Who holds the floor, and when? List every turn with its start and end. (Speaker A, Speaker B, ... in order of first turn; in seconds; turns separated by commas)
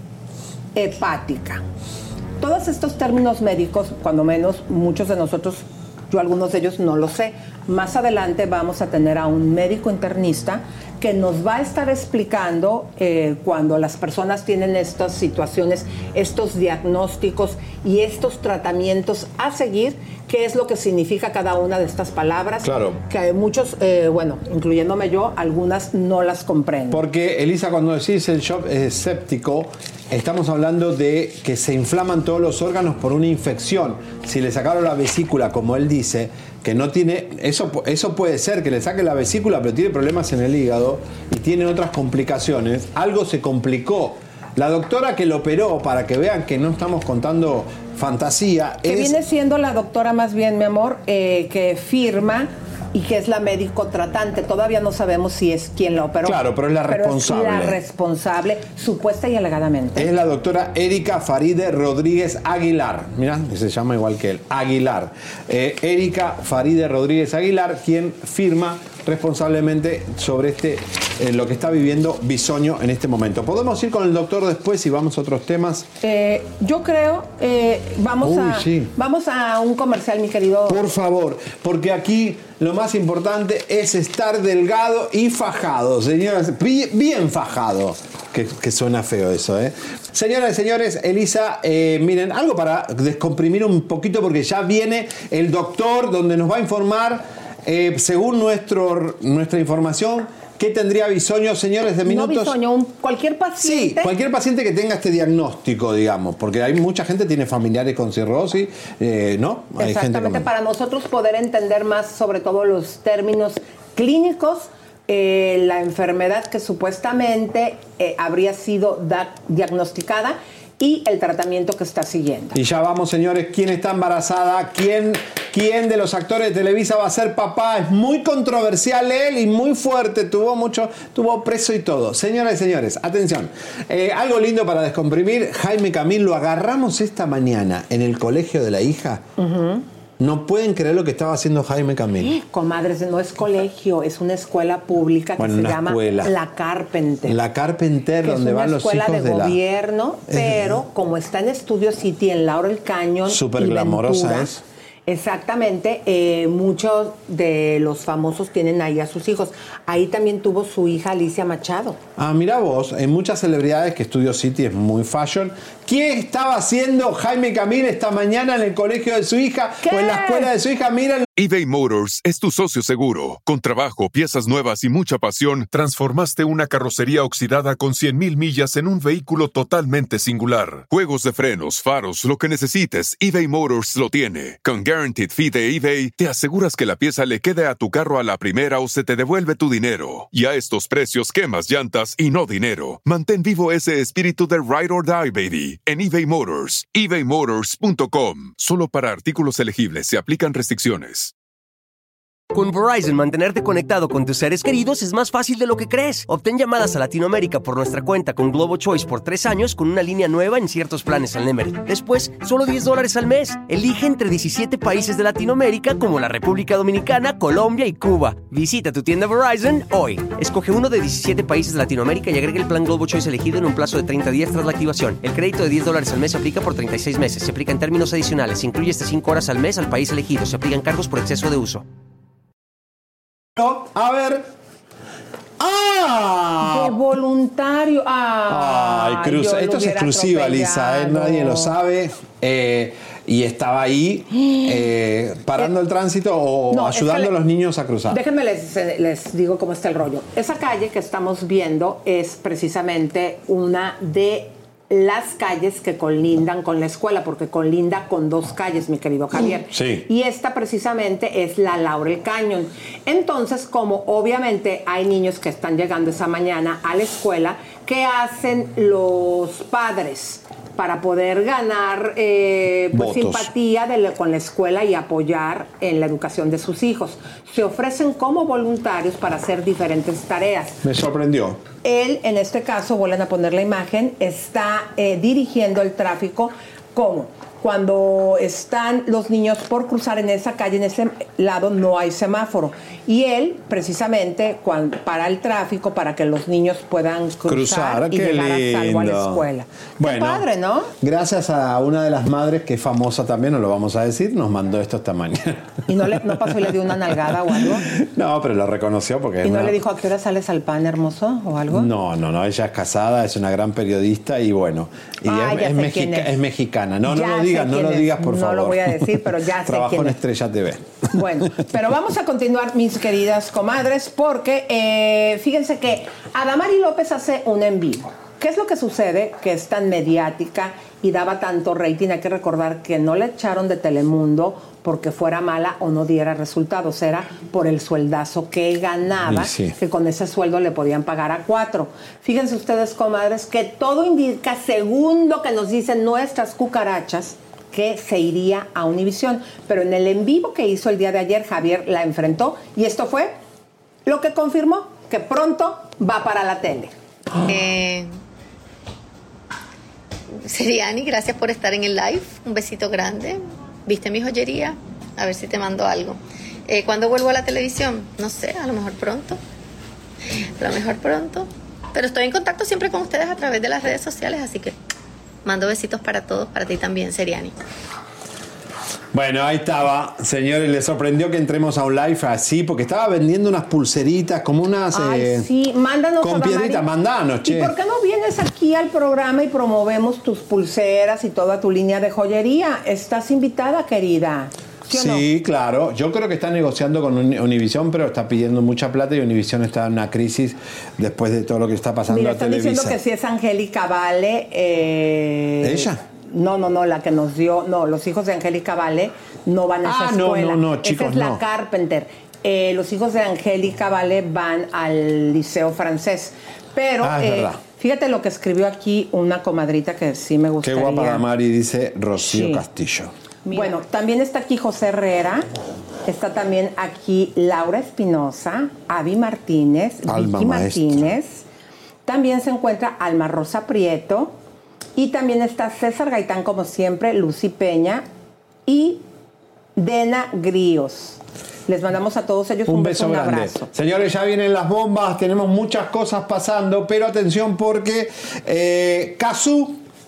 Speaker A: 0.7-1.6, Speaker A: 2.4-27.0, Speaker B: 22.6-23.0, Speaker B: 26.9-49.2, Speaker A: 48.8-60.1, Speaker B: 56.2-57.8, Speaker B: 60.0-75.9, Speaker A: 76.0-80.8, Speaker B: 78.2-78.9, Speaker B: 80.7-102.5, Speaker A: 102.0-104.1, Speaker B: 103.6-110.5, Speaker A: 109.8-122.5, Speaker B: 122.5-139.2, Speaker A: 139.4-139.8, Speaker B: 140.2-142.3, Speaker A: 142.3-147.4, Speaker B: 145.4-146.3, Speaker B: 147.2-149.6, Speaker A: 148.2-154.5, Speaker B: 150.3-150.8, Speaker B: 153.3-154.6, Speaker A: 155.1-162.0, Speaker B: 162.2-171.3, Speaker A: 169.8-170.5, Speaker C: 171.3-201.3, Speaker D: 202.5-231.8, Speaker B: 233.6-234.5, Speaker B: 235.6-237.0, Speaker A: 236.6-241.7, Speaker B: 238.5-248.2, Speaker A: 246.7-247.3, Speaker A: 248.1-280.8, Speaker B: 259.7-260.1, Speaker B: 272.9-273.5, Speaker B: 280.8-281.6, Speaker A: 281.8-300.9, Speaker B: 297.4-299.5, Speaker B: 300.0-300.5, Speaker B: 301.0-309.8, Speaker A: 305.9-307.9, Speaker A: 309.4-311.9, Speaker B: 311.7-321.6, Speaker A: 315.2-316.4, Speaker A: 317.1-320.2, Speaker A: 321.1-353.3, Speaker B: 339.2-339.8, Speaker A: 354.1-356.9, Speaker E: 357.4-358.2, Speaker E: 360.4-369.4, Speaker E: 370.6-374.7, Speaker E: 375.4-377.6, Speaker B: 379.1-385.5, Speaker A: 384.9-386.9, Speaker B: 386.2-387.7, Speaker A: 387.4-395.2, Speaker B: 394.9-403.0, Speaker A: 402.1-421.2, Speaker B: 405.6-406.0, Speaker B: 409.8-411.4, Speaker B: 417.0-417.6, Speaker B: 420.6-423.1, Speaker A: 422.2-422.6, Speaker A: 423.4-425.4, Speaker A: 426.0-431.4, Speaker B: 430.1-431.0, Speaker A: 432.1-434.3, Speaker A: 434.9-438.0, Speaker A: 438.6-439.0, Speaker A: 439.8-443.7, Speaker B: 442.6-449.8